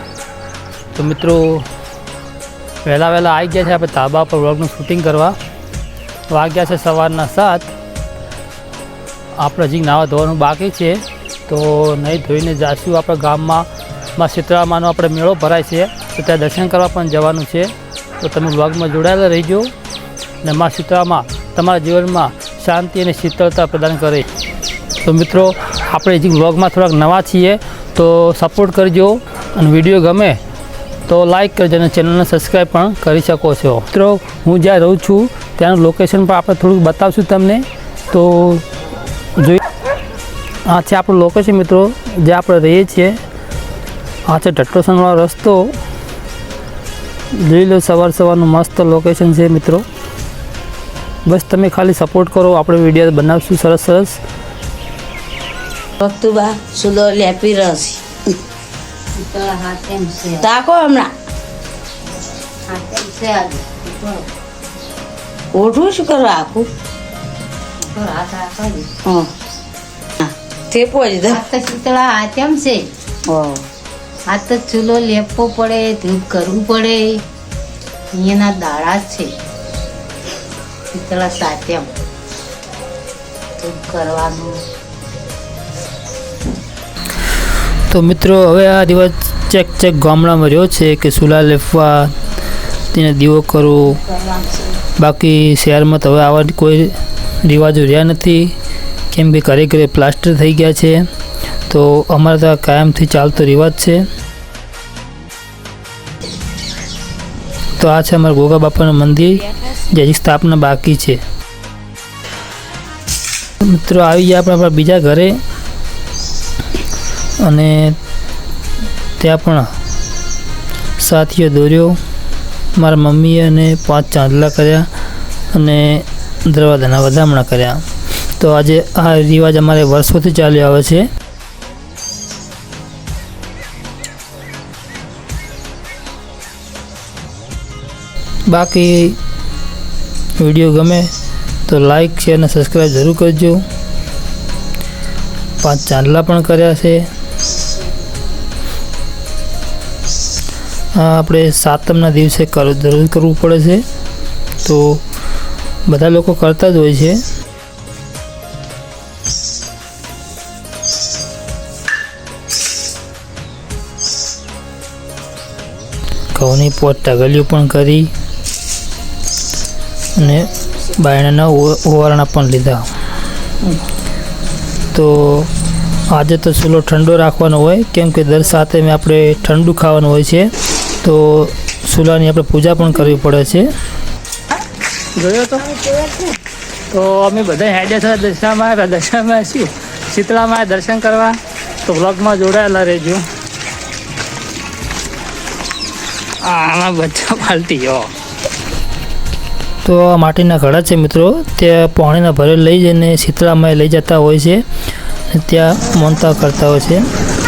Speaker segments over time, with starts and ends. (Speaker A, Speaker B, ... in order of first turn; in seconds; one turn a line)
Speaker A: 0.9-1.6
Speaker A: 2.9-5.3
Speaker A: 6.3-7.7
Speaker A: 9.4-13.7
Speaker A: 14.2-19.7
Speaker A: 20.4-24.3
Speaker A: 25.0-30.4
Speaker A: 31.1-38.6
Speaker A: 40.7-43.1
Speaker A: 44.3-45.7
Speaker A: 47.4-49.8
Speaker A: 51.3-54.2
Speaker B: 56.0-58.0
Speaker C: 59.2-60.5
Speaker B: 60.4-61.1
Speaker C: 62.7-64.3
Speaker B: 65.5-66.7
Speaker C: 67.8-68.9
Speaker B: 69.1-69.3
Speaker B: 70.2-71.4
Speaker C: 71.3-72.9
Speaker B: 73.3-73.6
Speaker C: 74.3-77.2
Speaker C: 78.1-79.3
Speaker C: 80.9-81.9
Speaker C: 83.6-84.6
Speaker A: 87.9-92.1
Speaker A: 92.9-94.0
Speaker A: 95.0-98.5
Speaker A: 99.1-101.0
Speaker A: 101.7-104.1
Speaker A: 107.8-111.2
Speaker A: 113.6-115.4
Speaker A: 117.4-118.0
Speaker A: 119.2-119.7
Speaker A: 121.0-122.0
Speaker A: 122.8-124.9
Speaker A: 125.5-127.8
Speaker A: 128.4-131.1
Speaker A: 138.5-139.2
Speaker A: 140.4-141.1
Speaker A: 141.7-143.6
Speaker A: 145.6-147.1
Speaker A: 151.0-153.8
Speaker A: 154.6-155.0
Speaker A: 155.9-157.2
Speaker A: 166.3-168.1
Speaker A: 170.2-172.9
Speaker A: 174.9-175.5
Speaker A: 176.1-180.5
Speaker A: 181.0-183.7
Speaker A: 185.2-185.7
Speaker A: 186.9-193.2
Speaker A: 196.4-198.1
Speaker A: 199.8-204.6
Speaker A: 205.3-207.1